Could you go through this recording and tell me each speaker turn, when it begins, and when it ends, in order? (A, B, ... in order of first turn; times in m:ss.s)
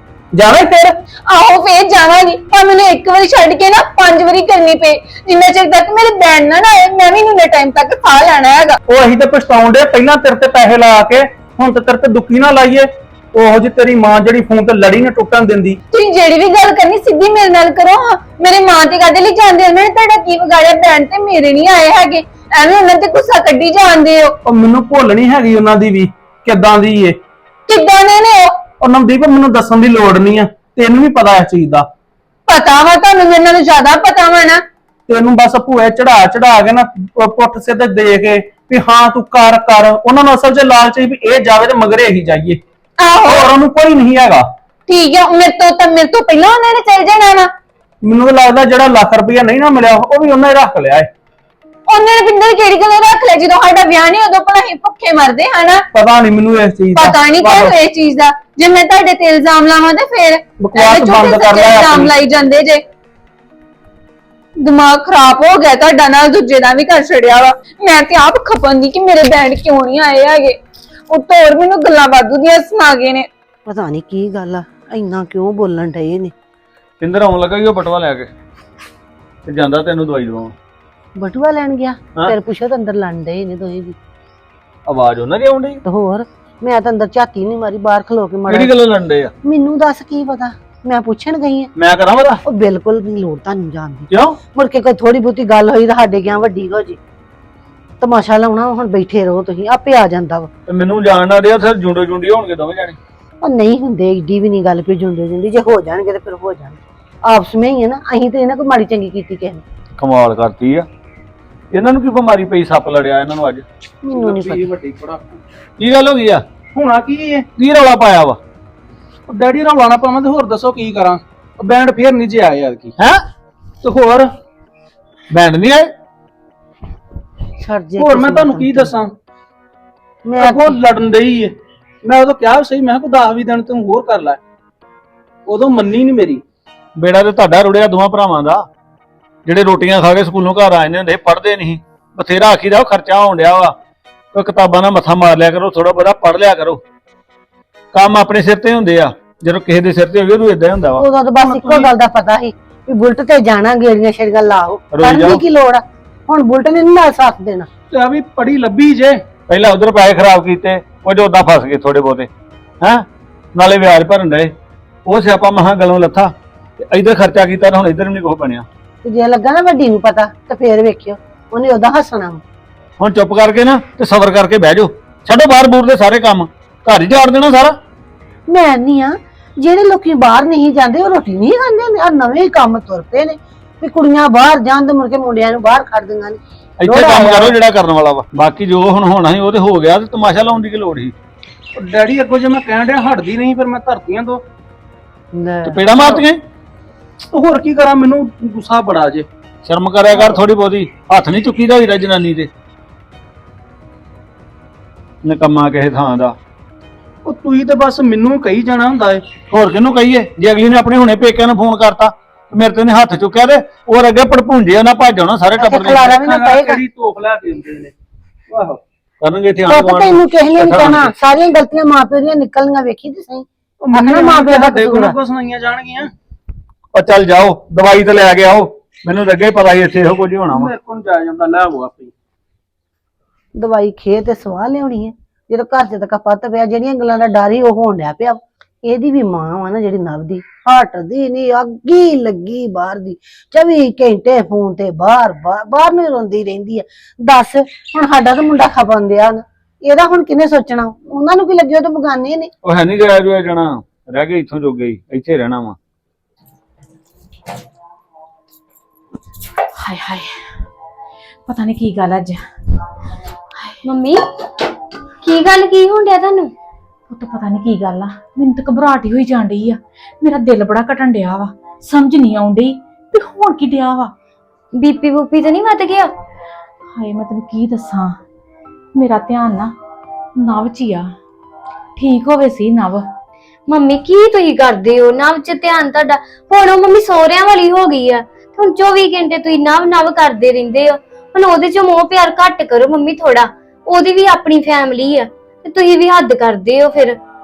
0:00.3-0:00.9 A
0:01.1-0:08.8 B
0:08.9-0:15.8 A
0:15.9-0:24.3 B
0:24.4-0:27.2 A
0:27.7-0:28.6 B
0:28.8-0:31.8 A
0:32.5-0:34.5 B
0:35.1-0:42.6 A
0:43.0-0:43.3 B
0:43.2-0:44.4 A
0:44.9-0:47.5 B
0:48.0-0:51.1 A
0:51.9-0:55.8 B
0:55.9-0:57.7 A
0:57.0-1:02.8 B
1:00.6-1:02.1 A
1:04.6-1:10.6 B
1:11.1-1:13.3 B
1:13.6-1:16.3 C
1:17.0-1:18.3 D
1:19.4-1:20.5 D
1:21.2-1:24.0 C
1:24.9-1:25.8 D
1:25.8-1:28.7 C
1:28.5-1:29.3 D
1:29.4-1:31.7 C
1:31.8-1:32.4 D
1:32.4-1:37.0 C
1:34.1-1:34.4 D
1:38.0-1:40.5 C
1:40.7-1:43.0 D
1:43.4-1:49.6 C
1:50.0-1:50.9 D
1:51.7-1:53.6 D
1:54.0-1:54.7 C
1:54.1-1:55.4 A
1:55.8-1:56.4 D
1:56.7-1:57.5 A
1:57.6-1:58.4 D
1:59.3-2:02.9 A
2:03.8-2:04.3 A
2:05.3-2:05.9 D
2:07.6-2:08.9 C
2:08.0-2:09.1 A
2:10.2-2:10.8 C
2:10.4-2:11.5 A
2:12.0-2:14.4 A
2:15.5-2:16.4 A
2:17.0-2:18.6 D
2:19.4-2:23.7 D
2:24.3-2:26.8 D
2:27.9-2:31.0 D
2:30.9-2:37.7 C
2:31.4-2:31.9 A
2:34.9-2:35.4 D
2:37.9-2:39.2 A
2:39.5-2:42.3 D
2:43.5-2:44.5 D
2:45.0-2:48.6 D
2:49.0-2:52.4 C
2:53.0-2:57.8 D
2:58.5-3:07.6 C
3:06.8-3:11.1 D
3:11.8-3:14.4 A
3:15.3-3:16.2 C
3:15.7-3:16.4 D
3:17.3-3:19.2 A
3:19.6-3:22.5 D
3:25.2-3:26.3 D
3:27.2-3:29.2 A
3:29.5-3:36.2 D
3:35.6-3:36.8 C
3:36.2-3:37.9 A
3:38.5-3:38.8 A
3:39.2-3:41.1 D
3:39.6-3:45.2 C
3:43.8-3:46.1 A
3:46.9-3:50.7 D
3:50.5-3:52.1 A
3:53.6-4:12.5 C
4:12.6-4:15.8 D
4:19.8-4:20.3 E
4:21.5-4:22.4 E
4:23.8-4:24.2 F
4:25.2-4:26.5 F
4:27.1-4:34.1 E
4:34.8-4:36.1 F
4:37.0-4:38.2 E
4:39.0-4:39.7 E
4:40.4-4:41.1 E
4:42.0-4:43.0 E
4:43.7-4:57.2 F